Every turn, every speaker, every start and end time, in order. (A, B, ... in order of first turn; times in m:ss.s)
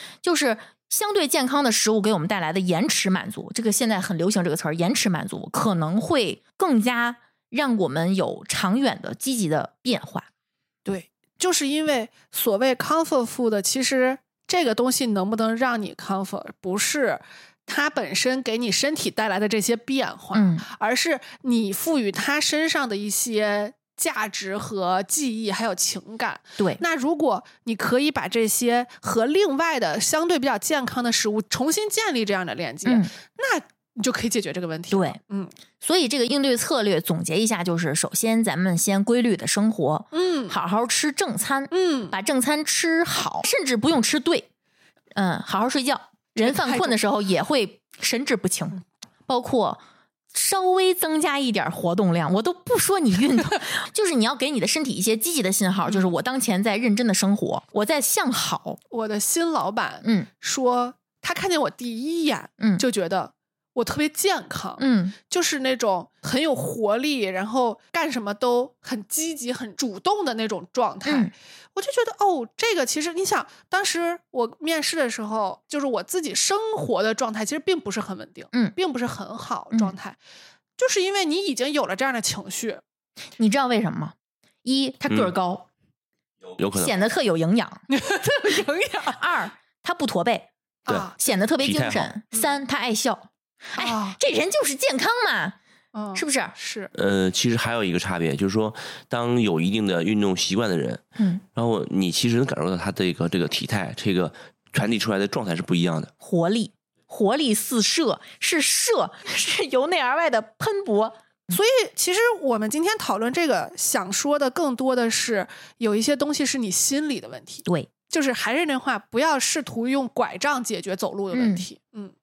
0:00.2-0:10.3 A
0:10.8-0:35.5 B
0:20.3-0:20.6 A
0:32.8-0:33.1 A
0:34.9-0:35.2 A
0:35.8-0:44.5 A
0:40.1-0:40.6 B
0:41.7-0:42.2 B
0:45.1-0:49.8 A
0:46.4-0:47.0 B
0:50.3-0:58.8 A
0:58.9-1:20.2 B
1:02.6-1:02.8 A
1:04.8-1:05.2 A
1:11.0-1:11.3 A
1:20.8-1:22.8 B
1:23.4-1:25.7 A
1:26.6-1:26.9 C
1:26.8-1:27.8 A
1:27.9-1:29.2 B
1:29.1-1:30.5 A
1:30.8-1:31.2 B
1:31.2-1:35.6 A
1:31.6-1:32.1 C
1:33.8-1:34.2 B
1:35.9-1:36.9 B
1:36.1-1:36.5 A
1:36.9-1:46.1 C
1:41.2-1:41.4 A
1:46.2-1:51.5 A
1:51.5-2:02.1 B
2:01.3-2:01.6 A